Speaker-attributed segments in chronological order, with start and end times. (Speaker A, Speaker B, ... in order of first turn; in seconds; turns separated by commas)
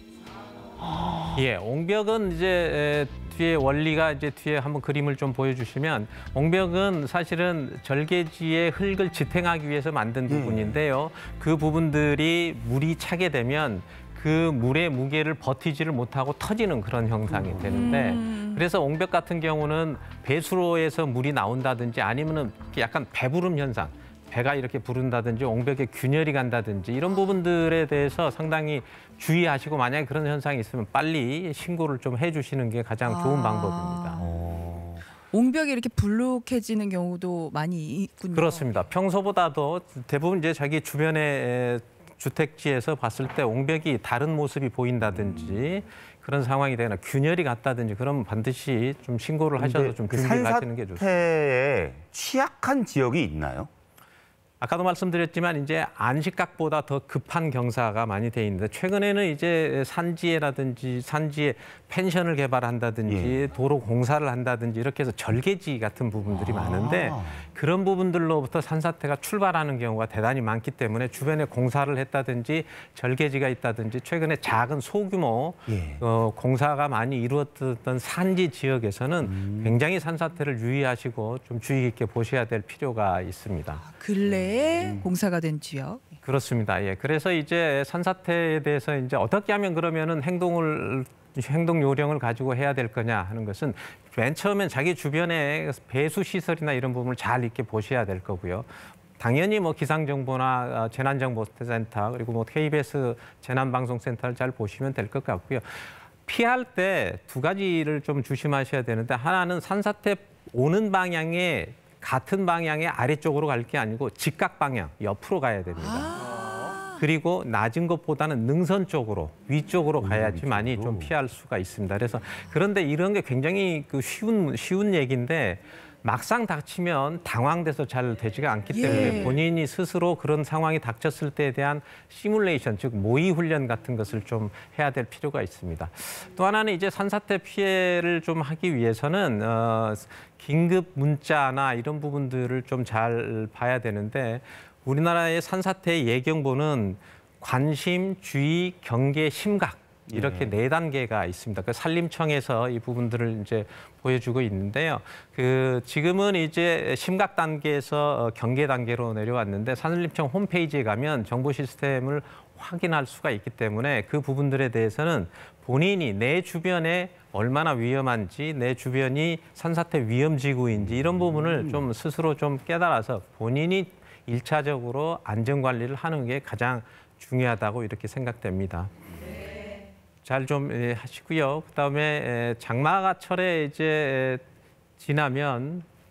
Speaker A: 0.8-1.4, Speaker B: 1.4-34.2, Speaker A: 10.3-10.8, Speaker A: 17.3-18.2, Speaker C: 17.7-18.6, Speaker C: 33.0-34.3, Speaker A: 34.2-35.1, Speaker C: 35.3-38.8, Speaker B: 38.3-51.1, Speaker A: 45.0-45.7, Speaker A: 49.6-53.7, Speaker B: 54.6-83.9, Speaker A: 63.1-63.5, Speaker A: 66.3-67.4, Speaker A: 75.7-76.0, Speaker A: 79.2-79.8, Speaker C: 83.9-86.1, Speaker A: 84.2-85.1, Speaker B: 86.2-116.2, Speaker C: 115.8-117.0, Speaker B: 117.0-179.0, Speaker A: 120.0-121.1, Speaker C: 128.7-129.4, Speaker A: 128.8-129.3, Speaker A: 150.1-150.6, Speaker A: 170.8-171.9, Speaker B: 180.2-184.4, Speaker B: 185.0-185.9